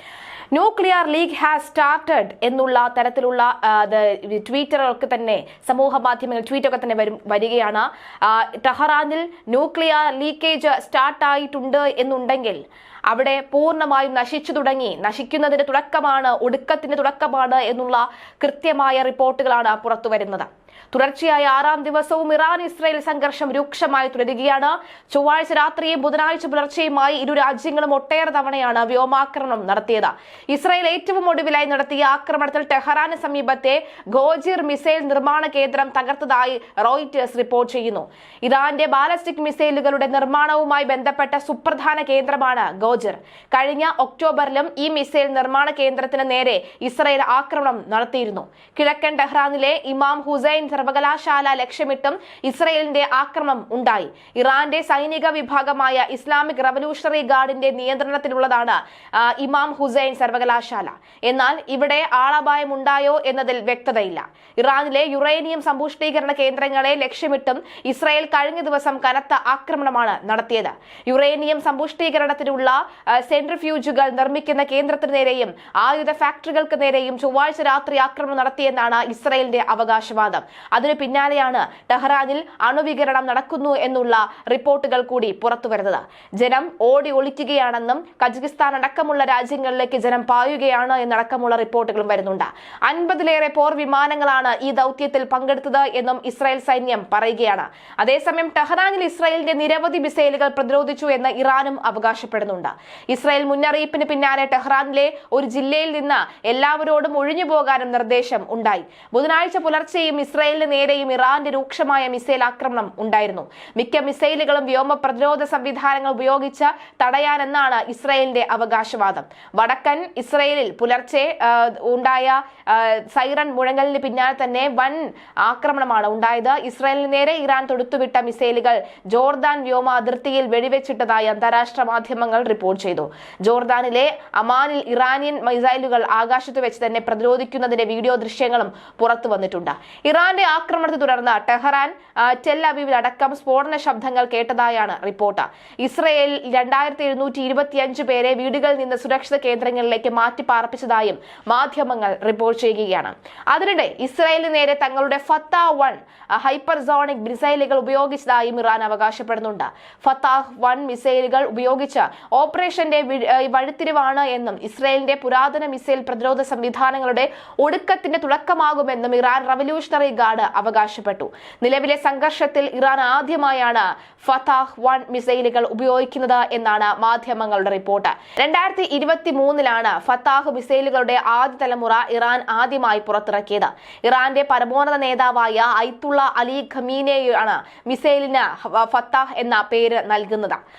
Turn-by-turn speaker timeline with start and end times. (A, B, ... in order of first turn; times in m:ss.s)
0:00.5-3:10.6 A